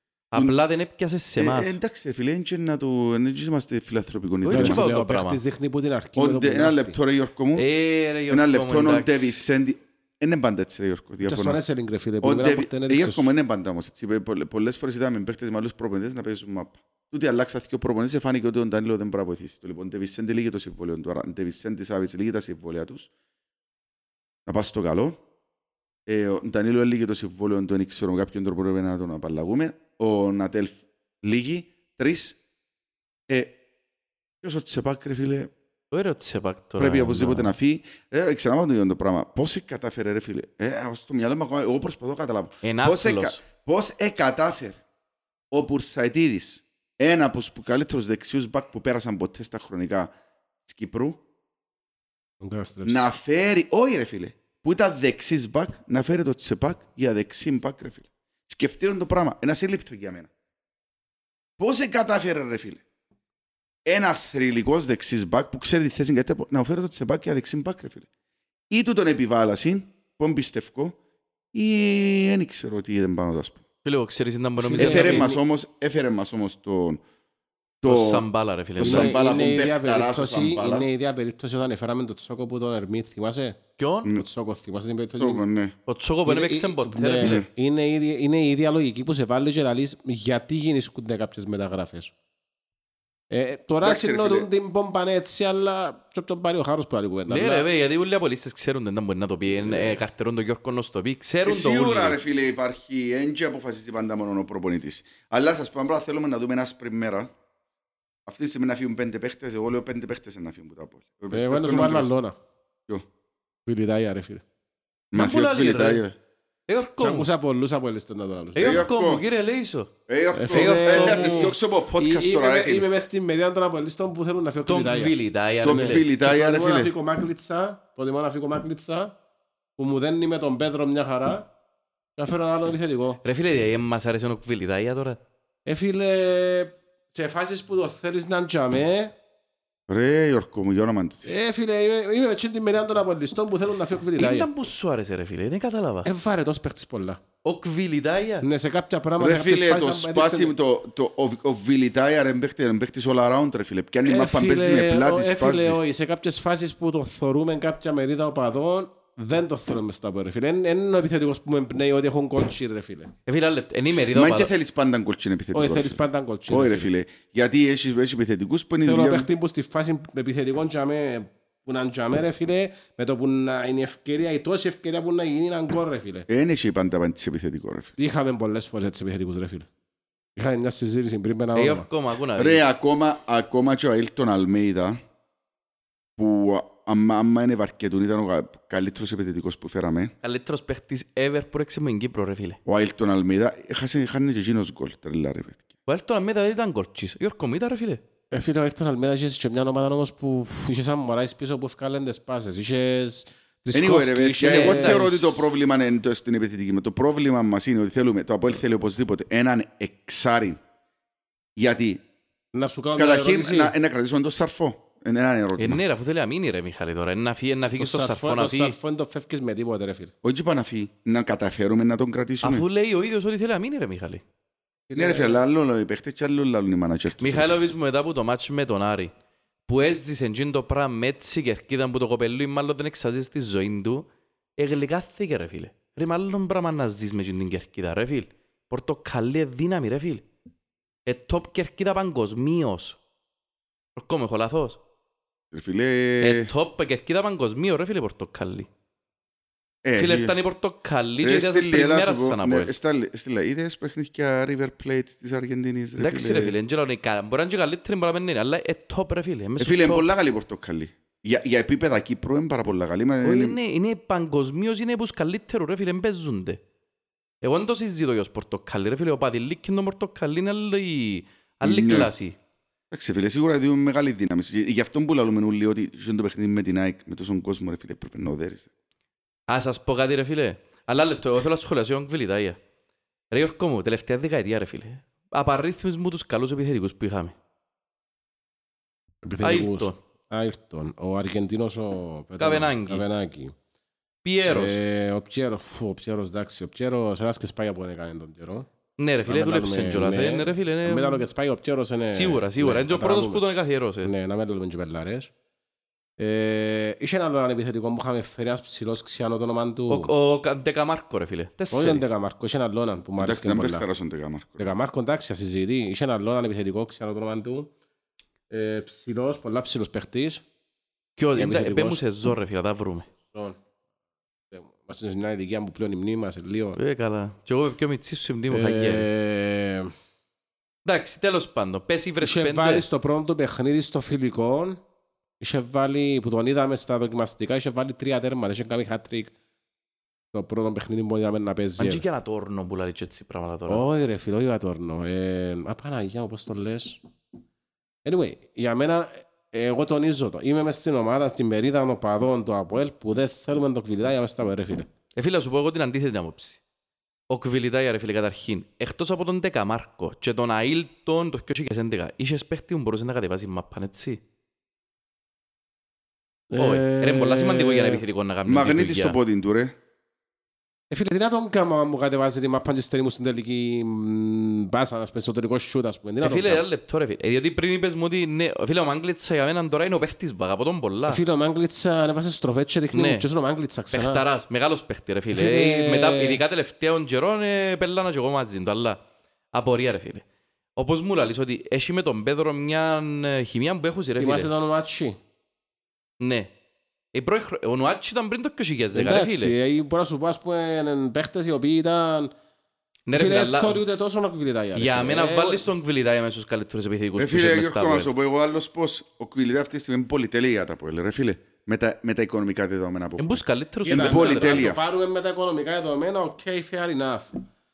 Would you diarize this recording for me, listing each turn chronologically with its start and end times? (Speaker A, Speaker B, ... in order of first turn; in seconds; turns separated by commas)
Speaker A: 0.3-1.8, Speaker B: 1.4-4.9, Speaker A: 4.4-5.4, Speaker C: 4.5-7.0, Speaker B: 6.2-7.7, Speaker A: 7.6-9.4, Speaker B: 8.3-11.6, Speaker C: 11.2-13.3, Speaker B: 12.2-23.1, Speaker B: 24.5-25.2, Speaker B: 26.1-32.4, Speaker B: 33.3-33.6, Speaker B: 34.4-35.5, Speaker A: 35.9-37.5, Speaker B: 36.8-44.8, Speaker A: 42.6-43.4, Speaker B: 45.5-50.1, Speaker B: 50.6-51.2, Speaker C: 52.4-53.1, Speaker B: 52.9-60.3, Speaker B: 61.6-62.8, Speaker B: 63.9-68.1, Speaker B: 68.7-71.0, Speaker B: 71.5-73.6, Speaker A: 73.8-75.3, Speaker C: 74.6-75.4, Speaker B: 74.8-77.0, Speaker B: 77.8-78.3, Speaker A: 77.8-79.5, Speaker B: 78.8-80.9, Speaker C: 78.8-83.6, Speaker A: 83.8-84.1, Speaker C: 84.1-85.4, Speaker B: 85.2-85.8, Speaker A: 85.9-87.4, Speaker C: 86.2-92.1, Speaker B: 87.2-87.5, Speaker C: 93.3-97.7, Speaker B: 93.8-94.5, Speaker A: 97.3-102.2, Speaker C: 99.5-100.0, Speaker B: 101.5-107.3, Speaker B: 108.3-112.1, Speaker C: 111.3-112.4, Speaker C: 113.7-114.4, Speaker B: 115.1-116.2, Speaker A: 115.1-116.0, Speaker A: 116.7-117.3, Speaker C: 117.0-118.9, Speaker A: 118.5-119.9, Speaker B: 118.6-119.2, Speaker B: 120.1-122.9, Speaker C: 120.3-129.1, Speaker A: 120.5-121.5, Speaker A: 124.7-126.1, Speaker B: 125.6-126.9, Speaker C: 129.8-131.5, Speaker C: 132.2-133.2, Speaker A: 133.2-135.2, Speaker C: 135.7-139.1, Speaker B: 139.9-141.3, Speaker C: 141.2-144.5, Speaker A: 144.2-146.1, Speaker C: 146.1-147.2, Speaker A: 147.4-148.5, Speaker C: 148.4-150.5, Speaker B: 149.2-155.8, Speaker C: 154.1-163.1, Speaker A: 163.3-164.5, Speaker B: 164.1-169.3, Speaker C: 165.5-166.9, Speaker C: 168.8-176.3, Speaker B: 176.3-177.9, Speaker C: 178.0-179.7, Speaker C: 180.4-181.9, Speaker A: 181.6-182.6, Speaker B: 182.4-185.0, Speaker B: 186.2-190.1, Speaker A: 190.2-192.6, Speaker B: 192.7-195.7, Speaker A: 195.9-198.0, Speaker C: 198.3-205.5, Speaker B: 203.7-210.6, Speaker A: 204.4-205.2, Speaker B: 211.6-212.0, Speaker C: 212.5-213.7, Speaker B: 213.0-215.8, Speaker A: 215.6-218.8, Speaker C: 217.8-220.1, Speaker B: 220.2-222.7, Speaker A: 222.4-224.2, Speaker C: 224.9-225.4, Speaker B: 224.9-227.7, Speaker A: 227.2-229.1, Speaker A: 229.7-234.1, Speaker A: 234.6-240.2, Speaker A: 241.1-243.0, Speaker A: 244.0-244.8, Speaker B: 245.5-246.5, Speaker A: 246.2-248.7, Speaker B: 249.8-250.3, Speaker A: 250.0-252.7, Speaker B: 251.2-256.6, Speaker A: 256.0-260.1, Speaker B: 259.6-263.6, Speaker A: 263.2-266.6, Speaker A: 267.4-272.4, Speaker B: 271.6-272.1, Speaker B: 272.9-278.7, Speaker A: 279.5-282.6, Speaker A: 283.3-287.4, Speaker C: 289.2-293.5, Speaker A: 289.4-290.0, Speaker A: 292.4-293.1, Speaker A: 294.2-294.8, Speaker C: 294.5-298.7, Speaker A: 299.0-301.2, Speaker C: 299.2-303.4, Speaker A: 302.1-304.1, Speaker C: 304.0-305.3, Speaker C: 306.2-310.1, Speaker A: 309.9-312.1, Speaker C: 311.7-313.9, Speaker B: 313.2-314.7, Speaker C: 314.6-317.7, Speaker C: 318.5-320.4, Speaker A: 321.2-323.1, Speaker C: 321.4-322.0, Speaker C: 323.2-323.6, Speaker C: 324.5-326.8, Speaker A: 326.8-329.1, Speaker C: 328.5-329.9, Speaker A: 330.9-332.9, Speaker C: 332.2-334.8, Speaker C: 335.4-339.3, Speaker C: 340.3-342.1, Speaker A: 341.8-343.9, Speaker C: 343.7-347.0, Speaker C: 348.1-354.9, Speaker A: 355.2-356.6, Speaker A: 357.3-364.2, Speaker C: 366.5-368.0, Speaker A: 366.6-369.2, Speaker B: 368.5-369.8, Speaker C: 370.9-376.6, Speaker A: 376.2-381.2, Speaker C: 381.1-384.2, Speaker A: 382.9-383.3, Speaker A: 383.9-389.0, Speaker C: 385.3-386.4, Speaker A: 389.5-390.2, Speaker A: 390.8-394.5, Speaker C: 394.2-395.2, Speaker A: 396.2-396.5, Speaker A: 397.1-399.5, Speaker C: 398.9-402.3, Speaker A: 403.1-403.8, Speaker C: 403.1-405.7, Speaker A: 404.8-408.1, Speaker B: 407.2-414.8, Speaker A: 413.2-414.7, Speaker C: 413.9-417.3